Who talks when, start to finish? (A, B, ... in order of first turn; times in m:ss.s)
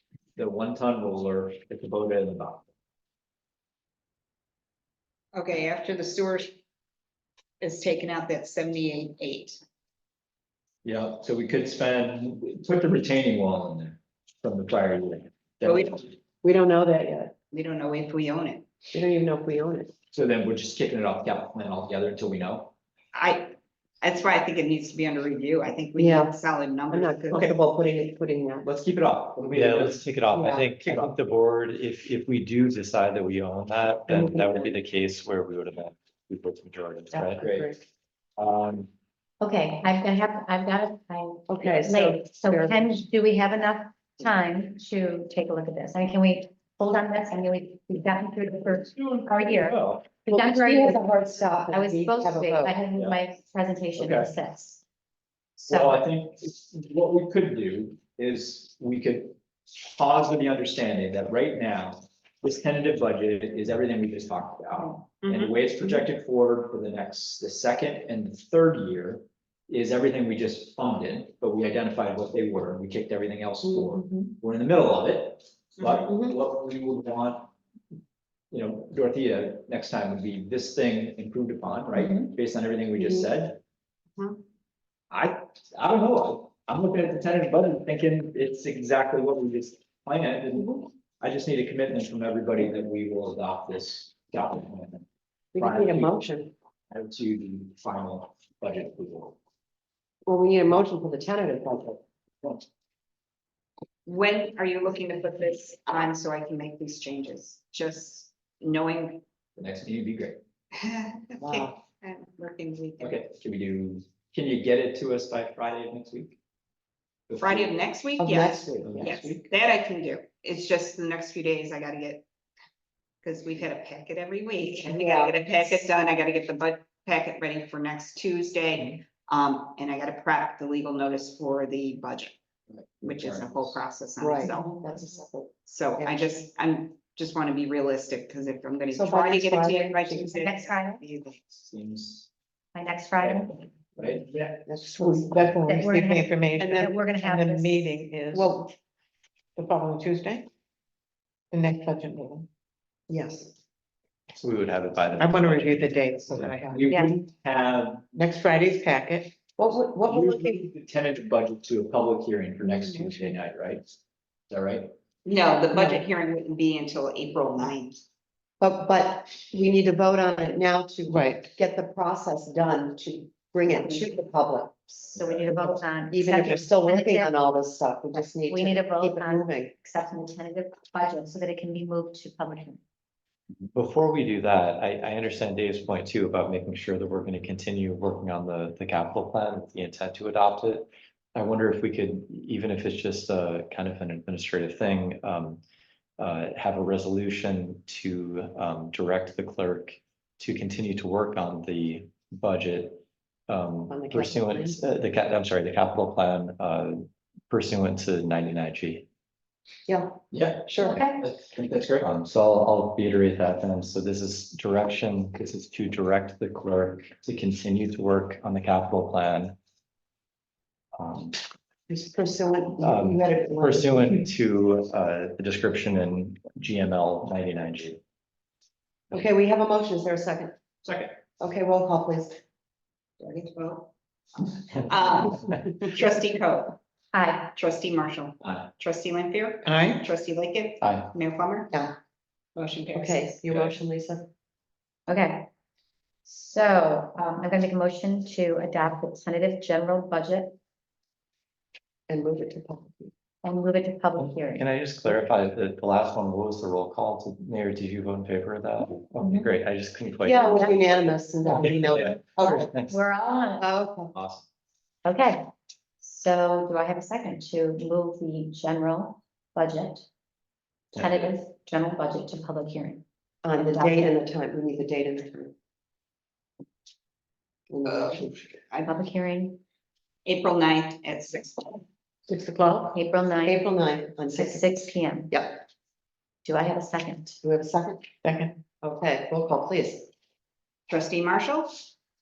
0:00.4-0:02.7 A
0:05.3-0:06.5 B
0:07.6-0:09.6 B
0:10.8-0:16.1 A
0:15.6-0:16.0 B
0:16.4-0:17.3 C
0:17.5-0:18.7 B
0:18.9-0:19.9 C
0:20.1-0:22.7 A
0:23.1-0:27.5 B
0:26.0-0:26.4 C
0:26.9-0:28.7 C
0:28.6-0:30.0 A
0:29.5-0:37.4 D
0:30.3-0:31.0 C
0:34.1-0:34.7 C
0:37.1-0:37.8 C
0:37.4-0:37.7 A
0:38.4-0:38.8 A
0:39.4-0:51.0 E
0:41.5-0:43.0 C
0:48.9-0:50.2 A
0:50.3-0:52.8 C
0:51.7-0:54.8 E
0:54.0-0:54.3 A
0:55.6-0:56.0 E
0:55.6-1:17.5 A
1:05.2-1:05.6 B
1:13.7-1:14.3 C
1:15.8-1:16.1 B
1:16.1-1:16.4 C
1:18.5-1:23.6 A
1:22.0-1:22.3 E
1:23.0-1:23.3 C
1:25.1-1:35.1 A
1:35.5-1:36.5 C
1:35.6-1:36.2 A
1:36.9-1:39.4 A
1:40.3-1:42.0 C
1:44.1-1:49.2 B
1:49.6-1:50.4 A
1:50.7-1:53.2 B
1:51.4-1:51.8 C
1:53.0-1:56.4 A
1:57.3-1:57.8 A
1:57.4-2:02.2 B
1:58.2-1:59.4 C
1:58.8-1:59.4 A
2:03.2-2:12.4 B
2:04.8-2:05.4 C
2:12.7-2:13.8 A
2:13.0-2:14.7 B
2:14.2-2:16.2 C
2:14.5-2:14.9 E
2:15.7-2:21.4 B
2:18.9-2:20.4 C
2:20.4-2:21.0 E
2:21.6-2:22.3 A
2:22.7-2:23.6 E
2:23.2-2:24.7 A
2:24.7-2:25.4 C
2:24.9-2:28.7 F
2:25.7-2:27.9 E
2:28.3-2:28.6 C
2:29.6-2:30.5 F
2:31.5-2:32.5 F
2:33.1-2:33.6 C
2:34.3-2:36.6 D
2:35.2-2:36.8 F
2:36.7-2:38.1 A
2:36.9-2:37.1 E
2:38.2-2:39.4 F
2:39.6-2:40.6 C
2:40.1-2:43.9 A
2:42.7-2:43.4 C
2:44.5-2:44.9 A
2:45.2-2:48.0 B
2:45.8-2:46.0 C
2:48.6-2:55.0 C
2:51.1-2:51.5 F
2:53.7-2:54.2 E
2:55.0-2:57.4 E
2:55.6-2:59.7 C
2:58.4-3:02.8 E
3:03.7-3:15.6 D
3:16.2-3:29.1 D
3:23.9-3:24.8 C
3:29.9-3:30.2 C
3:30.3-3:32.1 A
3:30.7-3:31.0 C
3:30.8-3:31.2 E
3:32.0-3:39.6 D
3:41.0-3:41.4 D
3:41.9-3:44.3 C
3:42.8-3:48.0 D
3:49.1-3:50.5 C
3:50.8-3:51.1 A
3:51.4-3:52.4 C
3:53.2-3:53.9 B
3:54.4-3:56.8 B
3:57.1-3:57.5 E
3:57.6-4:01.7 B
3:59.6-4:00.0 F
4:01.7-4:02.0 C
4:02.6-4:03.4 B
4:02.9-4:04.3 C
4:05.1-4:05.5 E
4:06.2-4:10.6 E
4:12.1-4:13.1 C
4:13.4-4:14.6 E
4:14.2-4:23.0 D
4:19.2-4:19.5 E
4:20.2-4:22.7 C
4:22.4-4:23.7 E
4:23.6-4:24.1 C
4:24.2-4:24.4 A
4:25.0-4:25.4 E
4:26.0-4:30.1 E
4:31.0-4:33.0 E
4:31.0-4:31.2 D
4:33.4-4:35.5 C
4:33.6-4:34.1 E
4:37.7-4:38.5 C
4:37.9-4:38.9 B
4:38.8-4:39.6 E
4:40.3-4:41.8 B
4:42.3-4:43.0 F
4:42.9-4:45.3 E
4:43.4-4:45.6 C
4:46.4-4:47.4 E
4:47.4-4:48.1 C
4:48.2-4:48.6 F
4:48.8-4:50.1 C
4:50.9-4:51.8 B